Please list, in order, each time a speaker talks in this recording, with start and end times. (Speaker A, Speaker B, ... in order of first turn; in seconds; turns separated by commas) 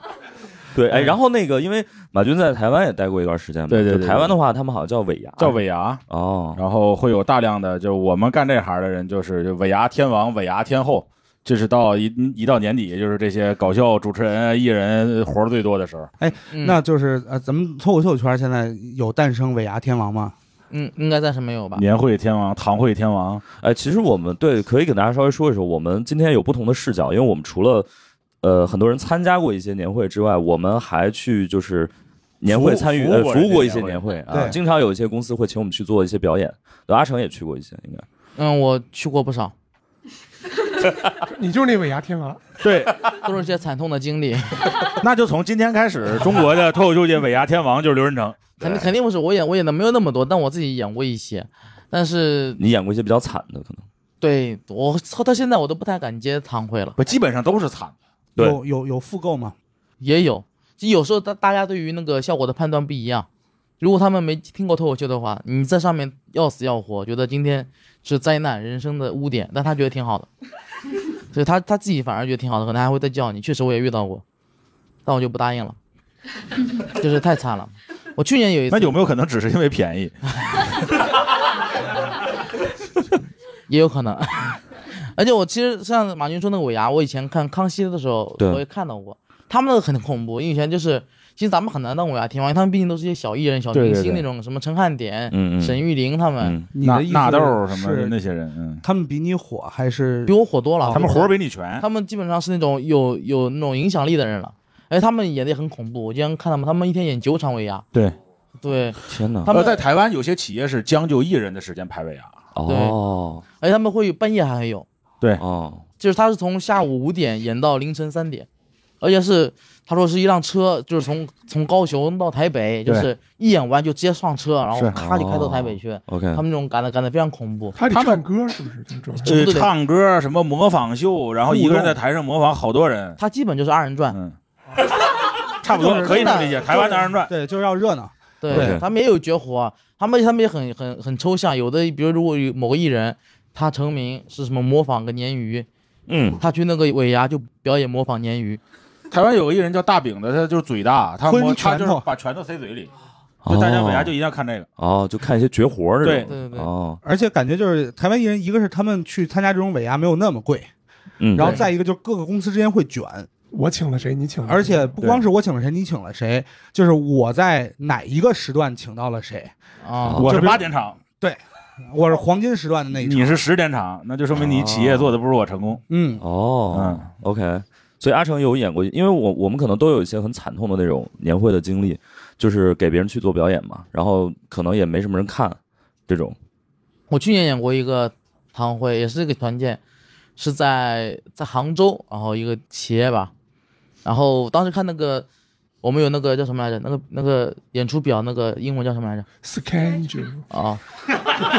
Speaker A: 0.7-6.6, Speaker B: 3.7-4.3, Speaker B: 5.4-6.0, Speaker B: 6.5-16.1, Speaker C: 16.2-20.3, Speaker D: 16.5-16.8, Speaker D: 20.7-21.8, Speaker B: 21.8-23.4, Speaker A: 23.6-27.9, Speaker A: 28.4-31.9, Speaker A: 32.4-38.0, Speaker B: 32.5-34.5, Speaker C: 34.3-34.6, Speaker D: 38.4-39.5, Speaker E: 41.3-42.4, Speaker B: 42.6-43.1, Speaker D: 43.2-44.6, Speaker B: 45.0-48.9, Speaker D: 48.6-52.6, Speaker A: 52.6-53.8, Speaker D: 54.2-57.0, Speaker B: 57.0-57.9, Speaker C: 58.4-59.5, Speaker D: 60.0-63.3, Speaker D: 63.8-70.3, Speaker D: 71.3-74.2, Speaker D: 75.0-75.8, Speaker D: 76.9-79.0, Speaker B: 78.7-80.1, Speaker D: 83.7-84.6, Speaker D: 85.2-96.5, Speaker B: 93.7-94.2, Speaker A: 95.3-95.8, Speaker A: 96.4-96.7, Speaker C: 96.7-98.1, Speaker B: 96.8-98.8, Speaker C: 98.8-100.3, Speaker D: 100.3-101.2, Speaker C: 100.8-101.3, Speaker B: 100.9-101.8, Speaker D: 101.8-107.8, Speaker D: 108.6-109.8, Speaker A: 109.1-109.5, Speaker B: 109.5-112.3, Speaker A: 112.5-113.4, Speaker D: 112.7-113.0, Speaker D: 113.6-114.8, Speaker A: 115.4-115.8, Speaker D: 116.0-118.5, Speaker D: 119.0-127.8, Speaker A: 124.9-126.4, Speaker E: 127.7-129.3, Speaker B: 127.9-128.2, Speaker D: 129.2-129.7, Speaker B: 129.3-133.2, Speaker C: 131.5-131.9, Speaker D: 133.2-134.2, Speaker B: 134.1-134.4, Speaker B: 135.6-137.3, Speaker C: 135.7-138.8, Speaker D: 135.8-136.5, Speaker D: 138.4-145.7, Speaker A: 138.5-138.8, Speaker A: 146.1-146.4, Speaker D: 146.4-148.6, Speaker B: 149.1-152.9, Speaker C: 151.2-152.0, Speaker A: 153.4-154.1, Speaker B: 153.5-154.7, Speaker A: 154.8-157.0, Speaker B: 156.0-156.3, Speaker D: 156.2-156.7, Speaker C: 157.0-160.7, Speaker A: 161.2-161.6, Speaker C: 161.3-163.3, Speaker D: 161.4-161.7, Speaker E: 163.5-164.8, Speaker C: 164.4-169.5, Speaker D: 169.8-170.2, Speaker A: 170.1-170.6, Speaker B: 170.2-171.0, Speaker C: 170.2-170.7, Speaker C: 171.2-173.4, Speaker B: 173.0-175.8, Speaker A: 174.3-175.1, Speaker C: 175.9-176.2, Speaker A: 176.2-186.3, Speaker B: 176.7-177.1, Speaker D: 187.1-189.8, Speaker D: 190.4-193.3, Speaker D: 194.0-195.3, Speaker D: 195.8-199.2, Speaker E: 199.4-200.4, Speaker D: 200.5-200.8